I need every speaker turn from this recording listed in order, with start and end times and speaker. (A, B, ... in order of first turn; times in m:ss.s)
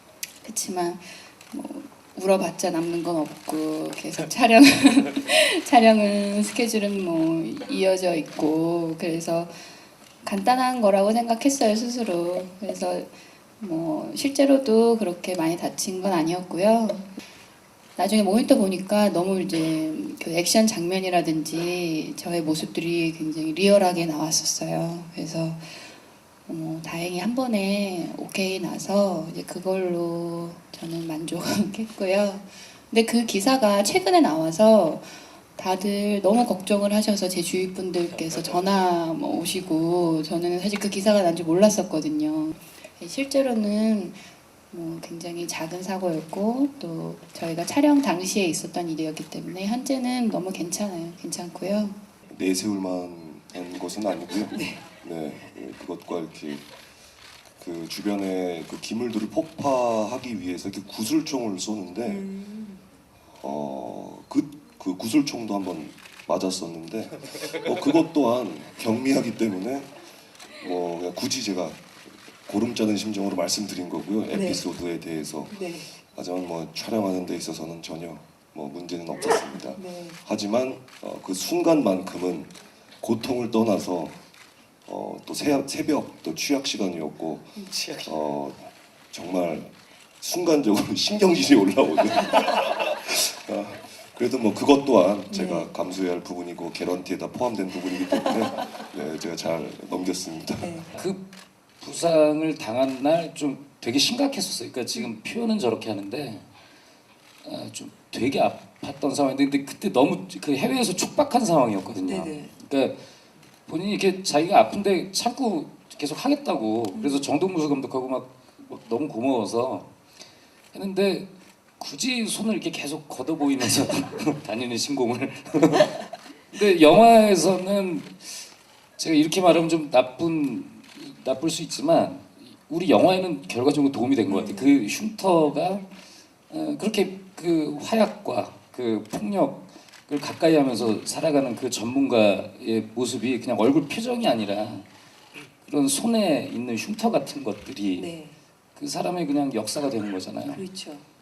0:00.4-0:09.6 A
0:10.2-0:17.1 A
0:18.0-0:25.9 A
0:26.5-0:52.0 A
0:52.3-0:56.7 B
0:54.5-0:54.8 C
0:57.6-1:02.3 B
1:02.0-1:02.8 C
1:03.4-1:09.9 B
1:10.5-1:11.8 B
1:12.4-1:24.2 B
1:14.3-1:14.6 C
1:15.5-1:15.9 C
1:19.8-1:20.2 C
1:24.9-1:40.8 B
1:27.6-1:27.9 C
1:35.3-1:35.7 C
1:38.0-1:38.4 C
1:40.6-1:41.0 C
1:41.0-1:41.2 D
1:41.8-1:46.5 D
1:47.4-1:53.0 D
1:52.0-1:52.5 C
1:53.7-1:59.9 D
1:56.9-1:57.3 C
2:00.7-2:08.4 D
2:09.0-2:15.9 D
2:14.3-2:14.8 C
2:16.5-2:24.9 D
2:25.6-2:28.1 D
2:28.0-2:28.4 C
2:28.8-2:30.6 D
2:30.5-2:31.1 C